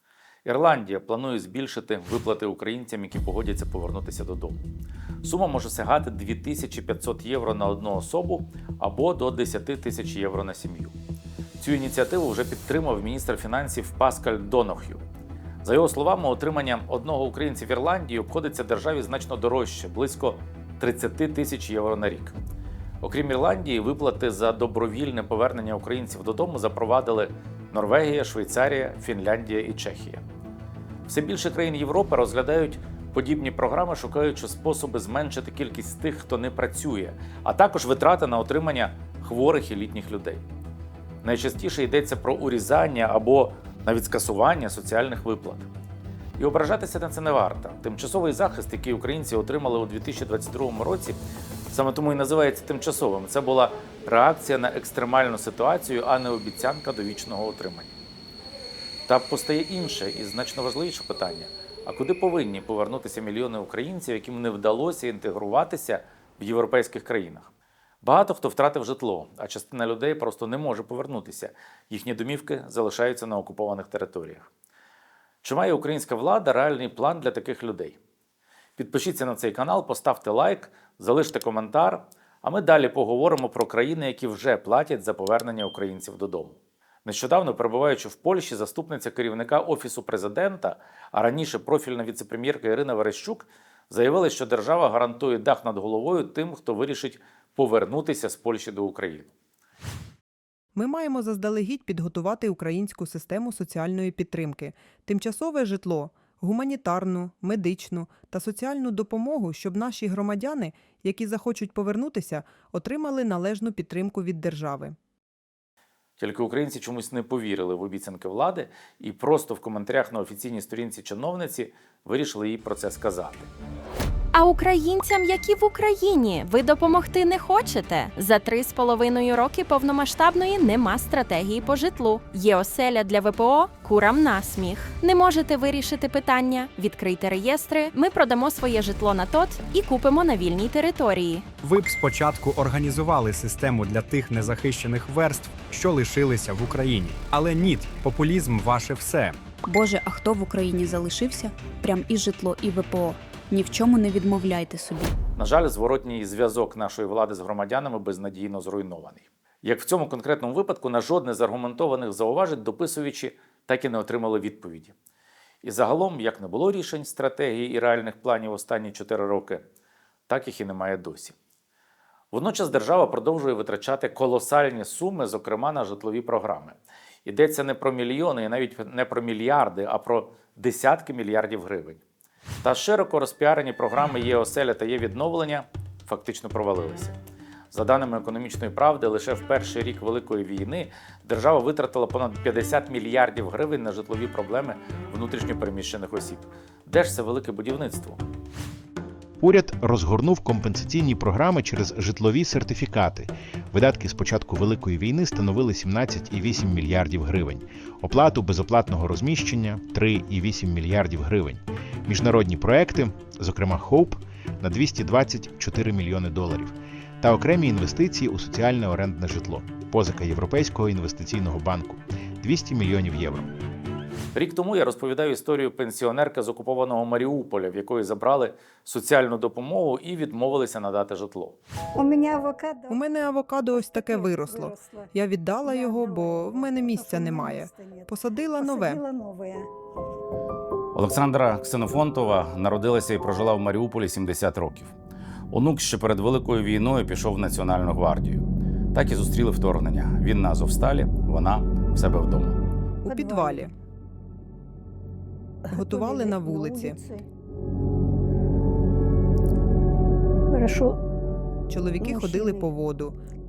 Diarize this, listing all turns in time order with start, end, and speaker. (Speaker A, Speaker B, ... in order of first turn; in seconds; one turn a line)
Speaker A: 0.4-4.6
Speaker A: 5.2-10.9
Speaker A: 11.6-15.0
Speaker A: 15.6-22.4
Speaker A: 23.0-30.2
Speaker A: 31.1-40.4
Speaker A: 41.2-45.7
Speaker A: 46.4-51.2
Speaker A: 51.7-57.9
Speaker A: 59.1-67.5
Speaker A: 68.0-74.5
Speaker A: 75.4-78.0
Speaker A: 78.8-99.3
Speaker B: 100.7-115.0
Speaker A: 116.2-123.5
Speaker C: 124.3-141.4
Speaker D: 141.6-149.4
Speaker E: 149.7-155.1
Speaker A: 155.3-164.9
Speaker A: 165.6-169.6
Speaker A: 170.3-171.3
Speaker A: 172.3-182.0
Speaker A: 182.6-187.2
Speaker A: 187.7-198.2
Speaker F: 199.4-223.5
Speaker A: 224.3-231.6
Speaker G: 231.9-233.1
Speaker B: 232.9-239.0
Speaker G: 233.7-239.7
Speaker A: 240.9-244.9
Speaker A: 245.5-252.6
Speaker B: 253.0-253.7
Speaker G: 253.1-253.7
Speaker G: 255.7-257.2
Speaker B: 255.7-257.0
Speaker G: 260.5-261.0
Speaker B: 261.7-263.1
Speaker G: 262.0-262.7